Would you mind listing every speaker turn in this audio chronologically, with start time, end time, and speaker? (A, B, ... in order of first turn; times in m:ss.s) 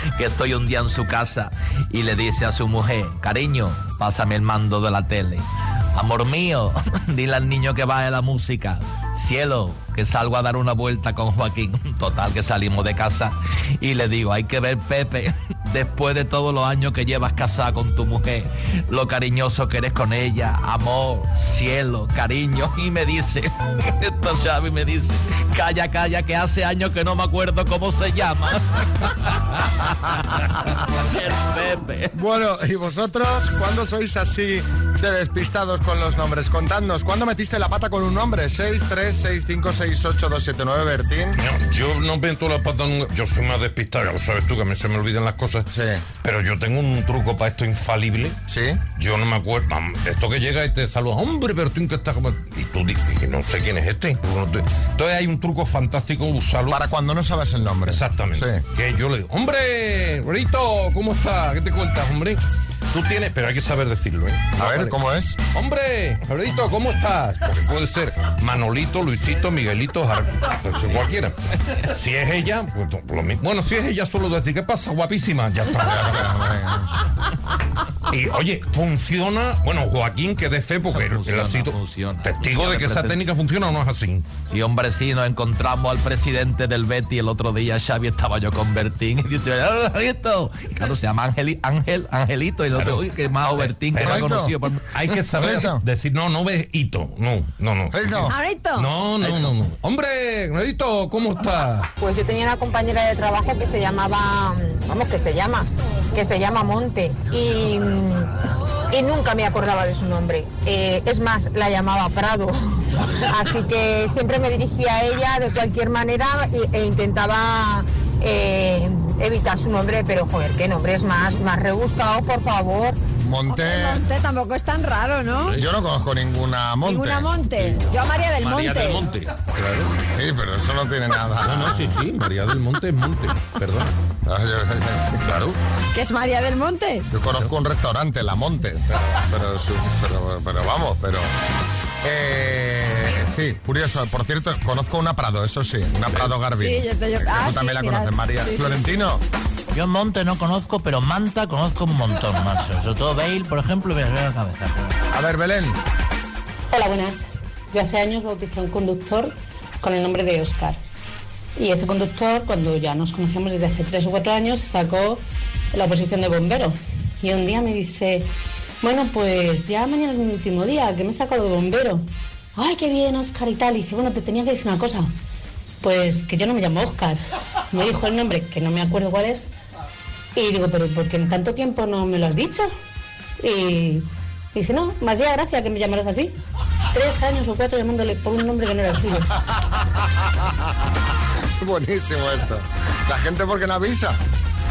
0:00.2-0:29.4 A
0:31.1-0:32.1 A
0:32.1-0:41.4 B
0:41.4-0:45.7 C
0:45.7-0:46.0 B
0:46.2-0:48.4 C
0:48.5-0:48.8 B
0:49.0-0:56.8 C
0:56.7-0:58.6 B
0:57.8-1:16.3 C
1:04.6-1:05.4 B
1:15.8-1:16.9 B
1:18.1-1:24.3 C
1:20.9-1:23.2 A
1:24.5-1:34.8 A
1:32.8-1:33.0 C
1:33.6-1:34.4 C
1:34.0-1:34.5 B
1:34.9-1:41.9 C
1:35.3-1:35.8 B
1:37.9-1:38.3 B
1:38.3-1:38.9 D
1:42.0-1:48.3 E
1:48.9-2:03.0 E
2:03.2-2:04.0 B
2:03.5-2:05.6 D
2:05.6-2:07.3 B
2:06.8-2:09.0 D
2:08.4-2:09.9 C
2:10.1-2:11.9 B
2:11.4-2:13.9 C
2:14.2-2:15.2 B
2:15.2-2:15.6 C
2:15.9-2:17.1 D
2:17.1-2:21.3 B
2:22.0-2:29.2 B
2:26.6-2:29.0 D
2:29.7-2:35.0 F
2:35.1-2:35.8 B
2:36.7-2:40.8 G
2:41.6-2:55.1 G
2:55.8-2:57.2 G
2:57.7-2:59.5 G
3:00.4-3:02.7 G
3:03.4-3:06.4 G
3:06.9-3:09.3 G
3:11.6-3:14.2 B